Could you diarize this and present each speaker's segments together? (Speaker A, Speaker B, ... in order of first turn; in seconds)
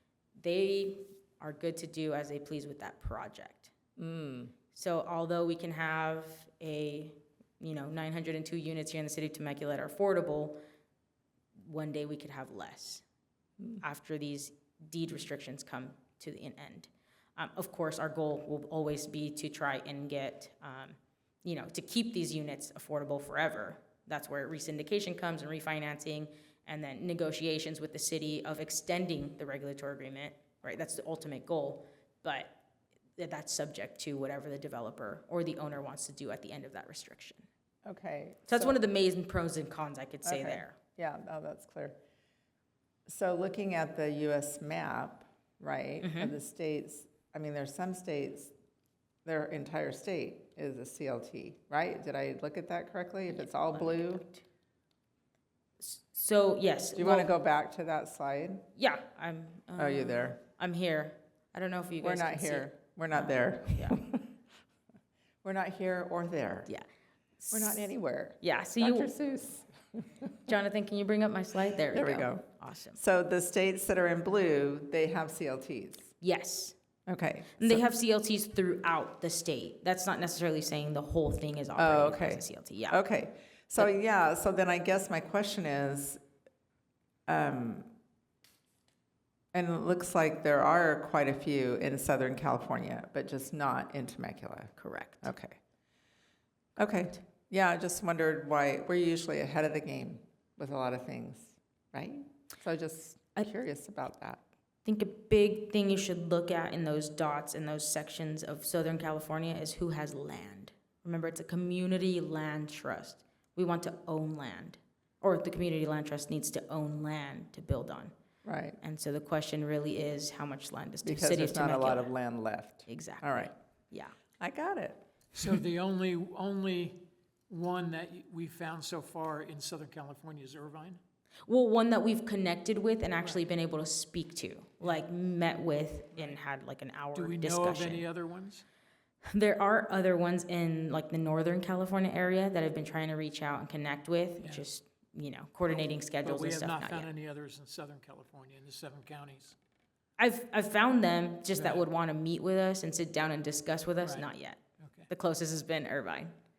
Speaker A: 0.4-3.7, 4.7-10.6, 11.6-13.0, 13.8-32.6, 33.2-37.5, 38.5-40.8, 46.0-46.4, 53.3-54.4, 55.8-57.3, 58.8-64.0, 67.4-67.8, 68.4-69.1, 70.5-73.0, 76.2-76.7, 77.6-83.0, 94.8-95.3, 104.8-118.1, 118.8-122.1, 122.9-124.1, 131.5-138.1, 139.3-147.1, 150.2-156.3
Speaker B: 4.0-4.5, 37.9-38.8, 40.2-42.0, 43.1-48.5, 49.2-54.2, 56.9-58.6, 59.8-60.4, 62.0-64.3, 65.4-66.7, 67.5-70.5, 71.9-76.1, 77.1-77.8, 81.8-86.2, 87.3-87.9, 89.5-95.6, 96.8-104.4, 118.4-118.8, 121.0-123.5, 124.4-125.0
Speaker C: 125.3-131.0, 137.1-138.7, 144.4-144.6, 145.7-149.6, 151.5-151.8, 154.0-154.3, 154.8-155.1